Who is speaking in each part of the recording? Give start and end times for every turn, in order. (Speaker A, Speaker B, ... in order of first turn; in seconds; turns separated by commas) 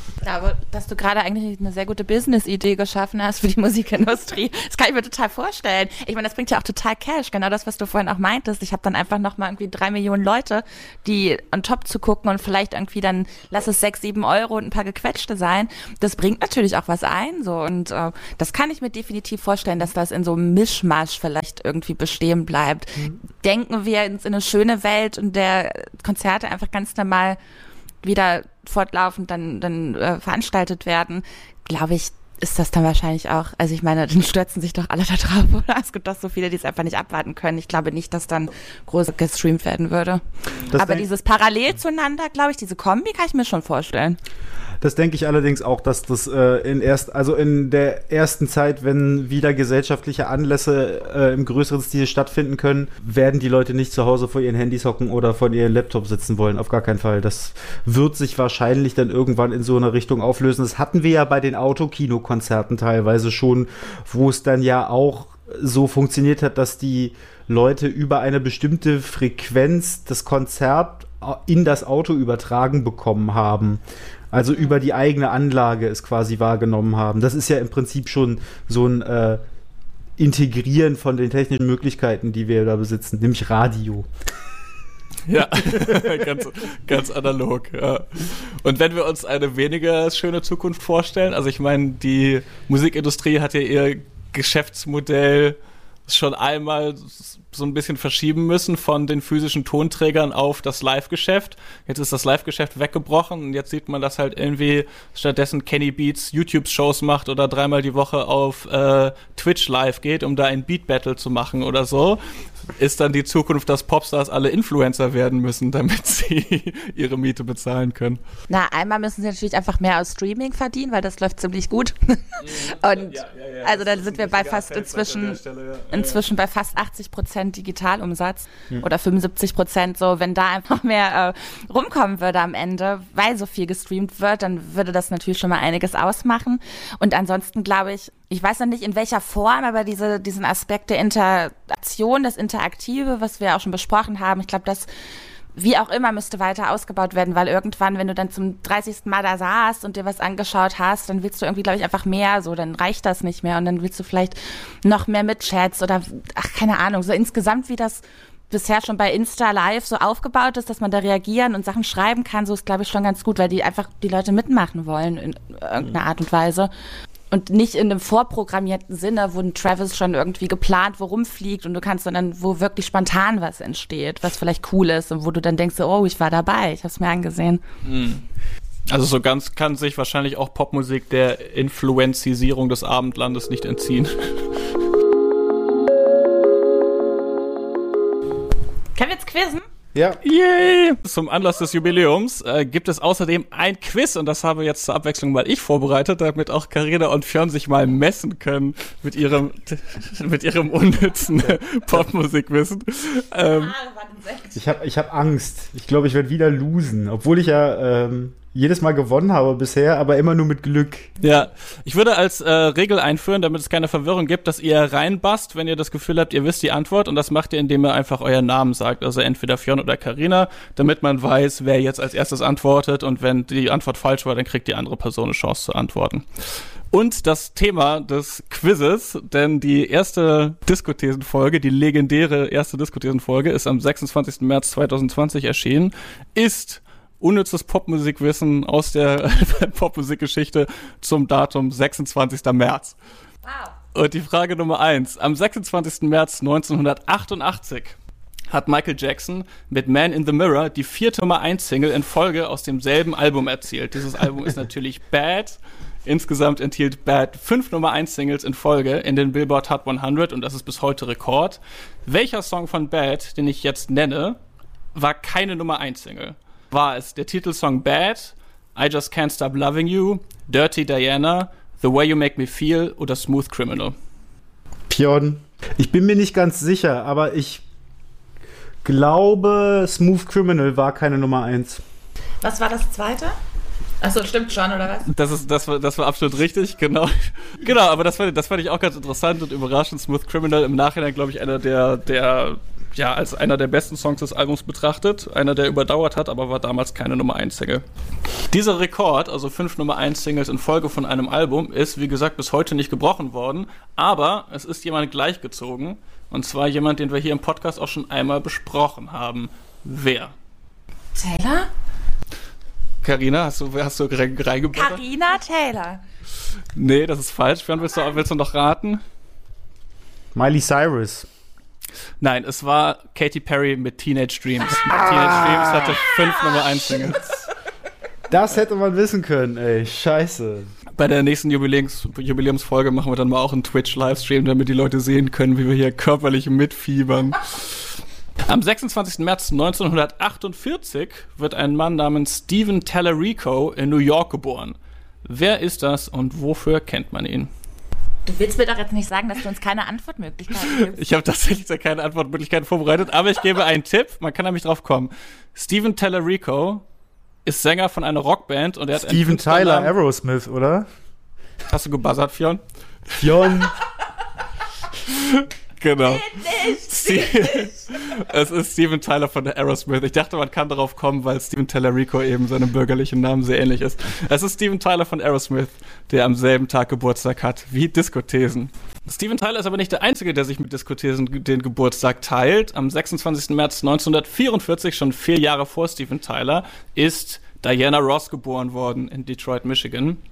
Speaker A: 0.2-27.4, Speaker A: 28.0-44.2, Speaker B: 40.7-41.1, Speaker B: 44.8-79.4, Speaker B: 80.2-84.1, Speaker C: 85.3-112.2, Speaker B: 85.8-86.1, Speaker C: 112.8-118.2, Speaker A: 118.5-125.4, Speaker C: 122.4-126.2, Speaker A: 125.9-144.9, Speaker A: 145.6-166.7, Speaker A: 167.3-177.6, Speaker C: 177.8-178.2, Speaker C: 178.9-184.6, Speaker A: 188.9-189.7, Speaker B: 189.9-190.2, Speaker C: 190.2-203.8, Speaker A: 203.4-204.6, Speaker B: 204.6-211.1, Speaker C: 211.2-243.0, Speaker A: 243.4-243.7, Speaker C: 243.9-248.0, Speaker C: 248.5-264.4, Speaker C: 264.9-273.9, Speaker B: 274.9-277.6, Speaker B: 278.8-281.8, Speaker A: 282.4-283.4, Speaker A: 284.0-285.1, Speaker C: 285.1-297.8, Speaker C: 298.5-310.3, Speaker A: 311.1-311.7, Speaker C: 313.0-315.0, Speaker A: 314.7-316.0, Speaker C: 316.8-319.0, Speaker B: 320.4-321.3, Speaker C: 322.2-327.4, Speaker B: 325.0-326.0, Speaker B: 328.3-330.7, Speaker C: 331.0-347.5, Speaker A: 348.3-351.0, Speaker C: 350.6-356.9, Speaker C: 357.4-359.9, Speaker B: 358.9-360.9, Speaker C: 361.7-363.3, Speaker B: 363.2-363.7, Speaker C: 365.1-390.2, Speaker A: 366.1-367.8